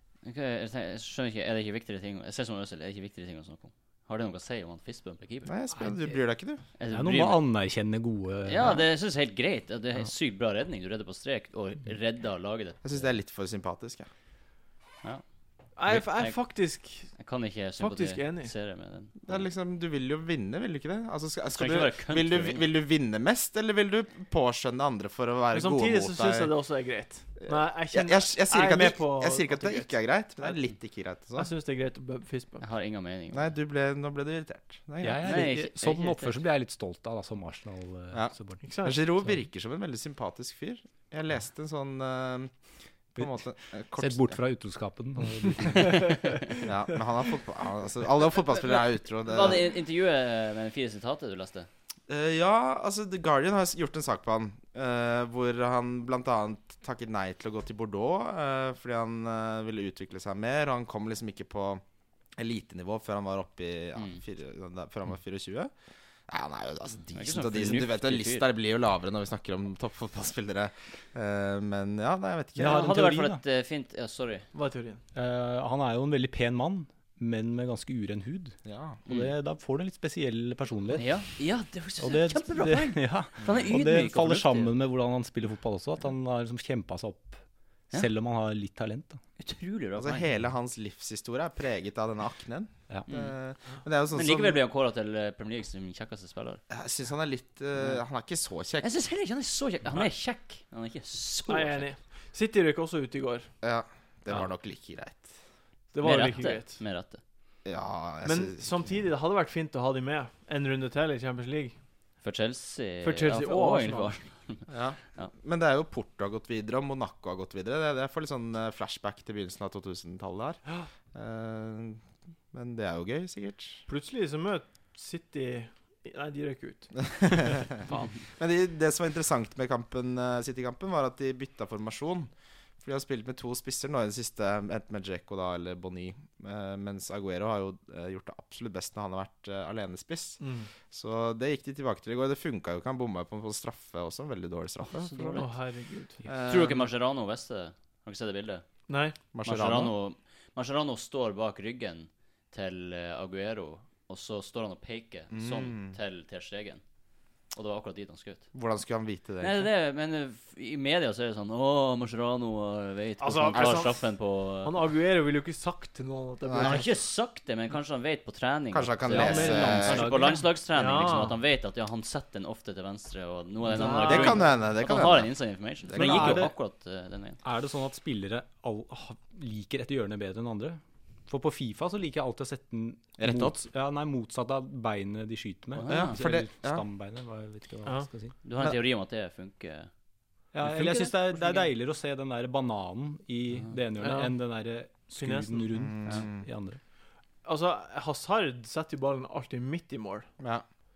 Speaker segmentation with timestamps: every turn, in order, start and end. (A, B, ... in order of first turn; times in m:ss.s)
0:00.2-0:05.9 A
0:05.4-0:06.6 B
0:06.8-0:07.4 A
0:06.9-0:08.8 C
0:08.4-0:13.1 A
0:12.8-0:14.1 B
0:15.8-0:17.1 D
0:15.9-0:16.6 A
0:17.1-0:19.5 A
0:17.8-0:18.5 D
0:19.2-0:26.5 B
0:21.5-0:22.7 A
0:25.5-0:30.6 D
0:27.4-0:31.5 B
0:31.4-0:32.6 D
0:32.6-0:33.4 A
0:33.3-0:35.4 B
0:35.0-0:38.6 C
0:35.2-0:36.3 A
0:38.6-0:39.0 D
0:38.8-0:42.5 B
0:43.2-0:44.4 B
0:44.0-0:46.4 C
0:45.8-0:46.2 D
0:46.6-0:49.7 B
0:48.6-0:51.7 A
0:52.1-1:01.8 B
1:02.4-1:05.7 B
1:06.3-1:13.1 B
1:07.1-1:08.4 A
1:12.6-1:13.4 C
1:12.6-1:14.5 A
1:14.5-1:15.0 D
1:15.1-1:21.1 C
1:18.6-1:19.0 B
1:20.9-1:24.7 A
1:22.0-1:27.4 C
1:27.9-1:29.2 C
1:29.4-1:30.2 A
1:30.0-1:34.6 B
1:34.1-1:36.6 A
1:36.7-1:38.9 B
1:38.8-1:41.9 A
1:41.5-1:43.5 D
1:43.6-1:45.3 B
1:45.9-1:46.8 D
1:46.0-1:47.2 A
1:47.6-1:48.8 B
1:48.2-1:51.7 D
1:52.2-1:55.3 A
1:53.0-1:54.1 D
1:54.7-2:03.8 B
2:03.9-2:08.1 D
2:07.1-2:12.3 B
2:12.8-2:25.5 B
2:20.4-2:20.7 D
2:24.9-2:25.5 A
2:25.3-2:26.2 D
2:26.2-2:26.9 B
2:26.4-2:28.6 A
2:28.9-2:29.2 D
2:29.3-2:29.9 B
2:29.4-2:36.8 A
2:35.3-2:36.0 B
2:37.5-2:38.5 A
2:38.5-2:39.7 B
2:39.4-2:44.8 A
2:43.2-2:44.0 D
2:43.5-2:43.9 B
2:44.6-2:46.9 D
2:46.5-2:46.8 B
2:46.6-2:57.4 A
2:48.7-2:50.2 B
2:49.1-2:51.4 D
2:49.2-2:50.4 C
2:53.7-2:54.5 D
2:54.0-2:55.3 B
2:55.8-2:56.4 B
2:55.9-2:56.5 C
2:57.4-3:08.3 C
3:03.2-3:03.6 B
3:05.7-3:06.2 A
3:05.9-3:06.8 B
3:08.4-3:09.9 A
3:10.5-3:16.8 C
3:10.6-3:11.7 A
3:14.0-3:14.3 D
3:15.1-3:15.7 D
3:15.7-3:16.4 B
3:17.4-3:20.3 D